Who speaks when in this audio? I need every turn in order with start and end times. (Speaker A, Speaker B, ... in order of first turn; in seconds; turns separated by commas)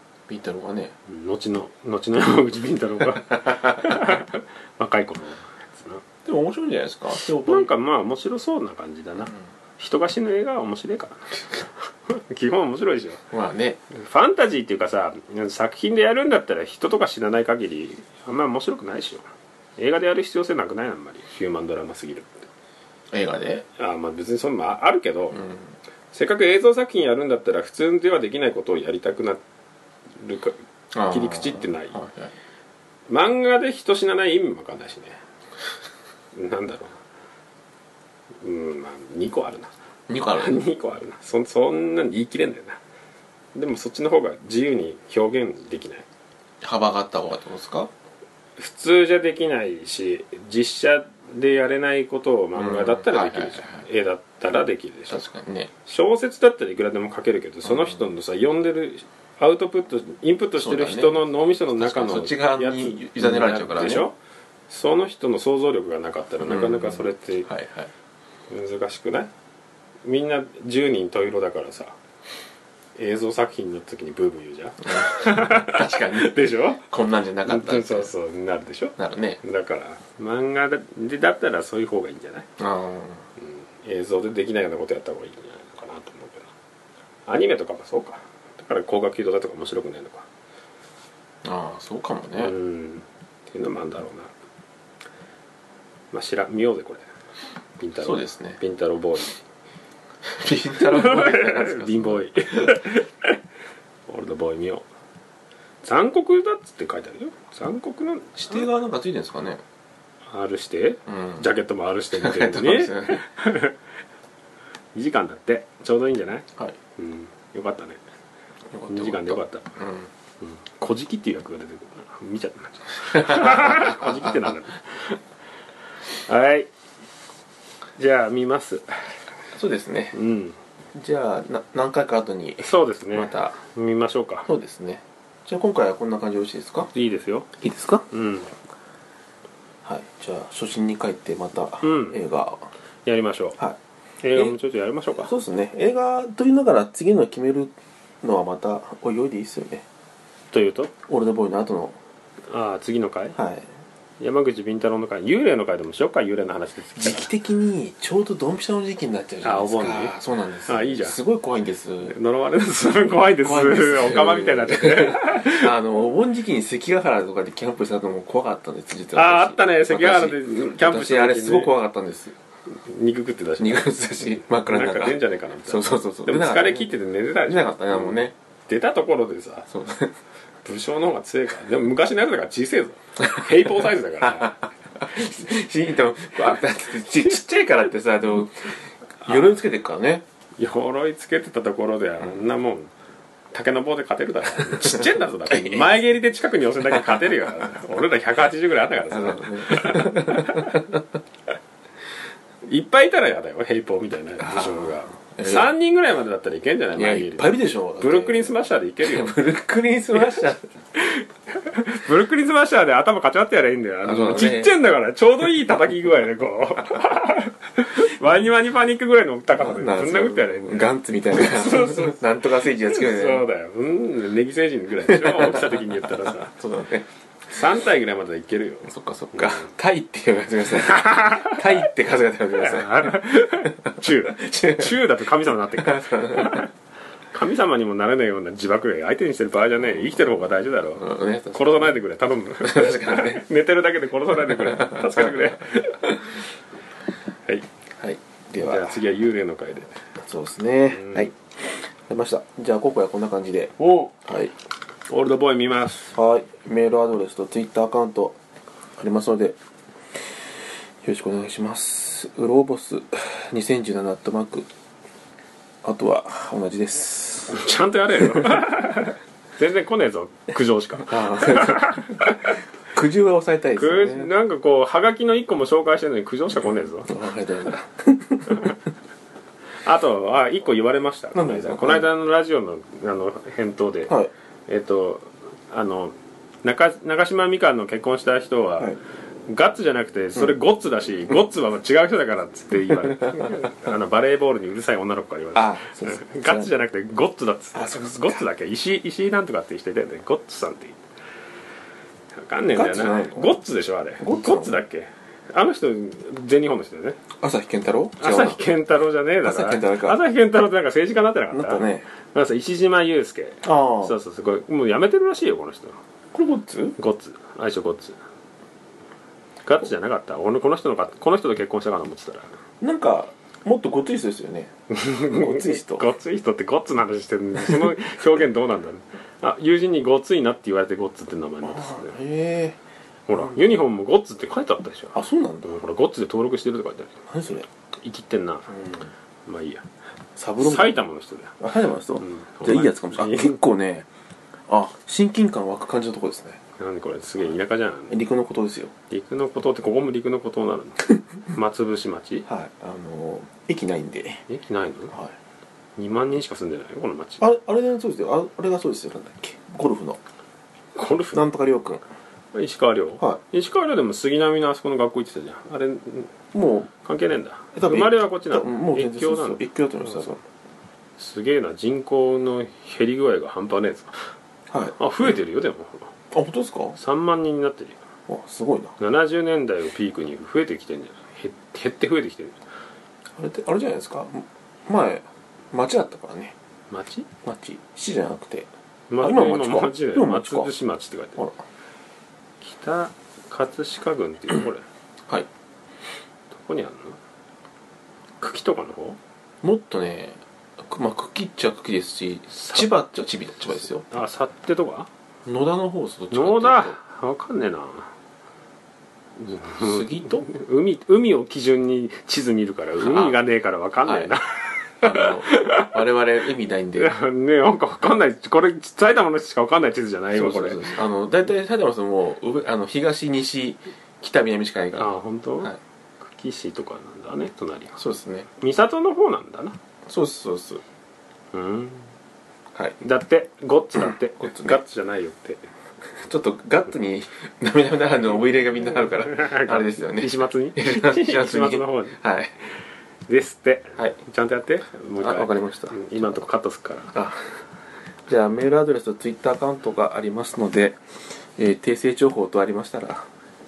Speaker A: 0.3-0.9, Speaker B: 1.1-6.0, Speaker A: 3.5-3.8, Speaker A: 6.2-7.7, Speaker B: 7.2-13.2, Speaker A: 13.3-13.8, Speaker B: 13.9-19.2, Speaker B: 19.8-22.5, Speaker A: 23.1-23.6, Speaker B: 23.8-25.5, Speaker A: 25.3-25.7, Speaker B: 26.1-29.4, Speaker B: 30.2-32.0, Speaker A: 30.9-32.3, Speaker B: 33.1-35.2, Speaker B: 36.3-37.0, Speaker B: 38.4-39.7, Speaker A: 40.1-40.6, Speaker B: 40.3-42.8, Speaker B: 43.5-46.0, Speaker A: 46.6-47.9, Speaker B: 48.6-55.2, Speaker A: 52.5-53.8, Speaker A: 55.1-55.7, Speaker B: 55.9-64.1, Speaker A: 57.6-58.0, Speaker A: 60.5-61.2, Speaker A: 61.7-64.1, Speaker B: 64.7-67.5, Speaker A: 66.4-67.9, Speaker B: 68.5-69.3, Speaker B: 70.0-71.9, Speaker B: 73.0-76.8, Speaker A: 74.9-78.1, Speaker B: 77.5-82.5, Speaker A: 79.0-79.4, Speaker A: 82.6-83.2, Speaker B: 83.4-86.5, Speaker B: 87.3-90.2, Speaker A: 91.4-92.5, Speaker B: 92.4-94.3, Speaker B: 96.1-97.0, Speaker B: 97.8-99.4, Speaker A: 98.0-98.6, Speaker A: 100.2-102.8, Speaker B: 100.8-103.4, Speaker B: 104.1-104.8, Speaker B: 105.8-108.7, Speaker A: 108.3-109.6, Speaker B: 110.3-113.7, Speaker A: 111.0-111.5, Speaker A: 112.1-113.2, Speaker B: 114.9-116.5, Speaker B: 117.0-118.0, Speaker A: 118.7-120.1, Speaker B: 118.9-119.7, Speaker B: 120.4-125.2, Speaker A: 123.1-124.5, Speaker B: 126.2-126.7, Speaker B: 128.0-129.0, Speaker A: 129.5-130.1, Speaker B: 130.1-130.6, Speaker A: 130.9-133.5, Speaker B: 132.6-134.5, Speaker A: 134.4-136.9, Speaker B: 136.9-137.5, Speaker A: 137.6-138.1, Speaker B: 138.1-138.5, Speaker A: 139.8-142.6, Speaker B: 141.8-142.2, Speaker B: 143.1-143.6, Speaker B: 144.2-145.3, Speaker A: 145.2-149.8, Speaker B: 150.5-150.9, Speaker A: 151.1-152.0, Speaker B: 152.5-153.3, Speaker A: 153.3-153.7, Speaker B: 154.2-157.3, Speaker A: 156.9-162.1, Speaker B: 159.4-160.2, Speaker B: 160.7-161.2, Speaker B: 162.0-165.7, Speaker A: 163.3-172.3, Speaker B: 169.1-171.7, Speaker B: 172.7-179.7, Speaker A: 173.6-176.9, Speaker A: 177.4-178.3, Speaker A: 179.7-180.1, Speaker B: 180.6-184.5, Speaker A: 183.2-183.5, Speaker A: 184.2-190.2, Speaker B: 190.6-192.9, Speaker B: 193.5-200.8, Speaker A: 194.7-195.9, Speaker A: 199.1-201.0, Speaker B: 202.6-209.3, Speaker A: 204.4-205.7, Speaker A: 206.9-208.5, Speaker A: 209.0-210.6, Speaker B: 210.1-226.5, Speaker A: 214.0-214.7, Speaker A: 219.6-223.4, Speaker A: 225.1-227.1, Speaker B: 227.5-229.7, Speaker A: 228.8-235.0, Speaker B: 231.0-231.8, Speaker B: 232.6-236.7, Speaker A: 235.7-236.7, Speaker B: 237.3-246.2, Speaker A: 241.0-241.9, Speaker A: 242.6-243.4, Speaker A: 244.5-245.4, Speaker A: 248.0-249.0, Speaker B: 248.6-249.9, Speaker A: 250.2-254.5, Speaker B: 250.9-251.3, Speaker B: 253.8-254.1, Speaker B: 255.1-256.1, Speaker A: 256.1-258.4, Speaker A: 259.0-259.6, Speaker A: 260.1-264.7, Speaker A: 265.8-267.6, Speaker B: 267.5-272.6, Speaker A: 268.2-268.6, Speaker A: 271.0-272.4, Speaker A: 272.9-274.3, Speaker B: 273.8-277.1, Speaker A: 277.1-278.8, Speaker B: 279.8-284.1, Speaker A: 281.3-282.1, Speaker B: 284.7-288.9, Speaker B: 289.5-301.0, Speaker A: 293.0-293.6, Speaker A: 295.5-296.7, Speaker A: 297.7-298.4, Speaker B: 302.4-307.2, Speaker A: 302.7-303.6, Speaker A: 304.2-304.8, Speaker A: 307.4-308.6, Speaker B: 308.2-316.0, Speaker A: 309.4-310.2, Speaker A: 311.5-312.1, Speaker A: 313.6-314.1, Speaker A: 316.3-316.9, Speaker B: 317.0-318.2, Speaker B: 319.6-322.5, Speaker A: 322.8-324.7, Speaker B: 324.9-332.1, Speaker A: 325.2-326.1, Speaker A: 331.6-332.8, Speaker B: 333.3-337.1, Speaker A: 333.4-333.6, Speaker A: 335.1-335.8, Speaker A: 337.3-337.7, Speaker B: 338.0-338.7, Speaker A: 338.7-339.1, Speaker B: 339.4-339.8, Speaker A: 340.4-341.0, Speaker B: 340.6-341.6, Speaker A: 341.6-344.1, Speaker B: 342.2-343.6, Speaker A: 344.7-346.6, Speaker B: 346.8-348.2, Speaker A: 348.1-348.9, Speaker B: 349.1-352.4, Speaker A: 352.5-354.4, Speaker B: 354.5-355.1, Speaker B: 356.0-357.4, Speaker A: 357.4-360.2, Speaker B: 360.9-361.4, Speaker A: 361.3-362.0, Speaker B: 362.5-366.3, Speaker A: 366.5-366.9, Speaker B: 367.0-370.3, Speaker A: 367.7-370.4, Speaker B: 371.2-374.1, Speaker A: 374.7-374.9, Speaker B: 375.0-376.1, Speaker A: 376.3-377.0, Speaker B: 376.9-378.0, Speaker A: 378.3-378.9, Speaker B: 379.0-382.6, Speaker A: 383.4-386.5, Speaker B: 386.9-387.3, Speaker A: 387.4-388.7, Speaker B: 389.1-391.4, Speaker A: 389.2-390.7, Speaker B: 392.6-394.8, Speaker B: 396.5-397.2, Speaker B: 398.4-399.2, Speaker A: 399.6-404.1, Speaker B: 402.5-402.9, Speaker B: 404.1-405.1, Speaker A: 405.4-407.0, Speaker B: 406.3-408.1, Speaker B: 409.4-416.0, Speaker A: 409.8-410.4, Speaker A: 413.0-413.4, Speaker A: 414.0-414.3, Speaker A: 415.0-417.1, Speaker B: 417.0-421.0, Speaker A: 420.3-425.8, Speaker B: 424.9-428.0, Speaker A: 427.9-428.5, Speaker B: 428.6-429.8, Speaker A: 430.1-430.8, Speaker B: 431.5-432.1, Speaker B: 433.0-435.6, Speaker A: 434.0-434.8, Speaker A: 436.2-442.5, Speaker B: 439.2-442.2, Speaker B: 443.3-447.1, Speaker A: 445.2-446.4, Speaker A: 447.1-447.4, Speaker A: 448.3-451.0, Speaker A: 451.6-453.3